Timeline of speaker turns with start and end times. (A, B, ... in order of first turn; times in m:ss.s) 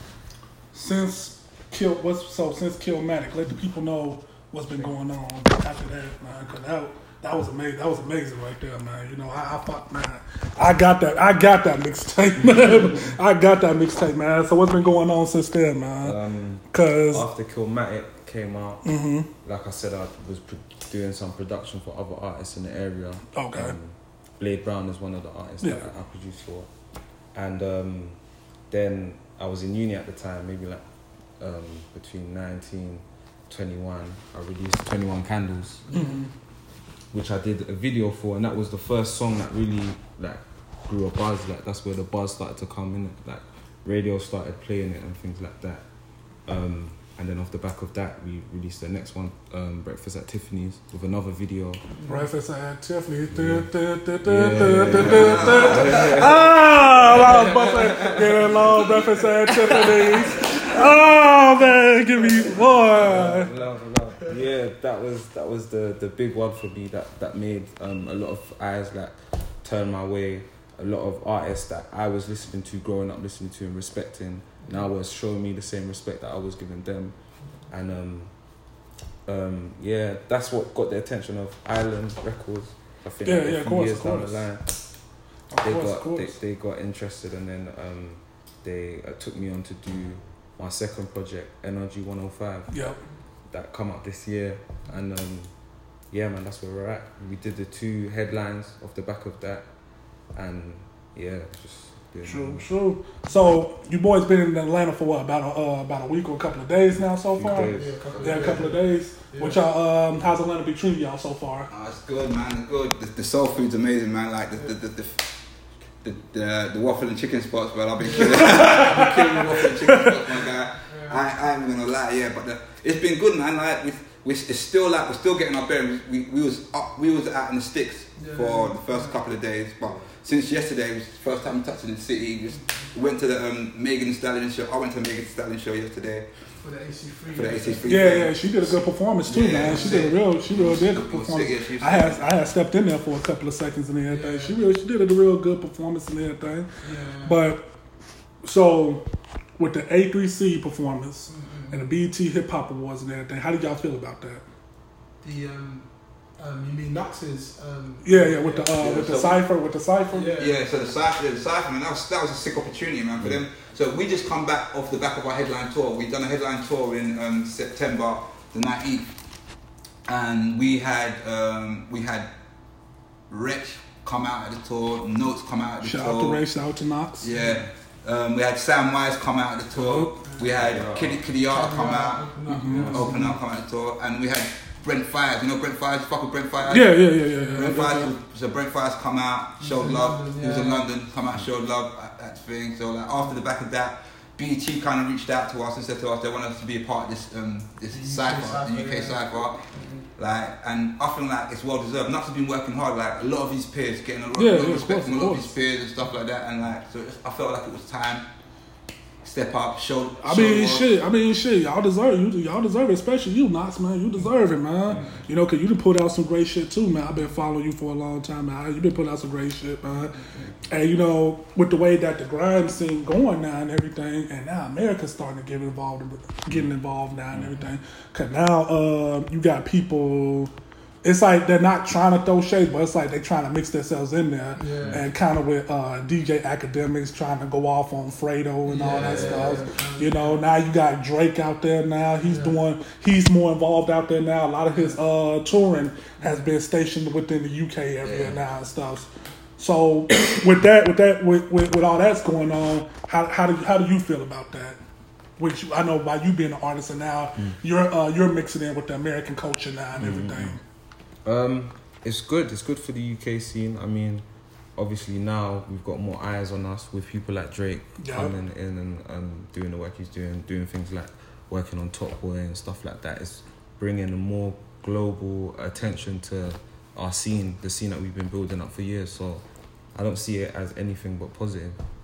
0:00.7-0:16.2 A
0:16.0-0:26.7 B
0:16.7-0:17.3 A
0:18.8-0:19.3 A
0:23.4-0:23.8 A
0:25.6-0:25.9 A
0:27.3-0:35.8 B
0:35.9-0:36.2 C
0:35.9-0:36.3 A
0:37.1-0:51.8 B
0:52.0-0:52.2 C
0:52.1-1:03.5 A
0:53.3-0:53.7 B
0:54.2-0:56.7 B
0:55.0-0:56.1 D
0:57.2-0:58.3 B
0:57.6-0:58.0 C
1:02.9-1:25.0 B
1:23.2-1:24.8 A
1:25.5-1:26.4 A
1:25.6-1:32.8 B
1:32.7-1:33.0 A
1:33.5-1:42.7 B
1:42.2-1:51.7 A
1:47.3-1:48.7 B
1:47.6-1:48.8 C
1:49.3-1:49.6 C
1:51.7-1:55.4 D
1:56.0-2:16.3 D
1:58.0-1:58.8 C
1:58.3-1:59.2 A
1:59.8-2:00.2 A
2:00.8-2:01.3 C
2:08.2-2:09.2 C
2:16.6-2:18.1 C
2:17.3-2:18.4 D
2:17.9-2:26.7 A
2:19.3-2:22.2 D
2:19.6-2:20.1 C
2:24.1-2:24.6 C
2:26.8-2:27.4 C
2:27.2-2:27.7 A
2:28.4-2:29.0 A
2:29.6-2:34.4 A
2:31.3-2:31.8 C
2:35.2-2:38.8 C
2:38.0-2:40.4 A
2:38.8-2:39.4 D
2:40.1-2:40.7 C
2:40.4-2:49.1 D
2:50.1-2:52.3 D
2:53.3-2:56.4 D
2:55.8-2:57.3 A
2:57.2-3:02.3 D
2:59.8-3:00.1 A
3:00.2-3:00.5 C
3:00.6-3:01.2 B
3:01.5-3:03.4 C
3:02.5-3:03.0 A
3:02.7-3:03.2 B
3:02.9-3:19.6 D
3:06.7-3:08.1 A
3:09.6-3:10.9 C
3:17.9-3:20.1 C
3:20.2-3:28.3 D
3:24.4-3:25.5 A
3:29.2-3:30.9 D
3:30.2-3:40.2 A
3:34.9-3:35.2 B
3:40.7-3:50.5 A
3:51.0-4:09.1 A
3:54.6-3:55.0 C
3:54.7-3:55.0 B
3:58.7-4:00.4 C
3:59.0-3:59.5 B
4:02.2-4:02.6 C
4:06.2-4:06.5 C
4:08.0-4:08.4 D
4:09.6-4:14.8 A
4:15.4-4:20.6 A
4:20.0-4:20.6 B
4:21.2-4:41.8 B
4:28.0-4:28.3 A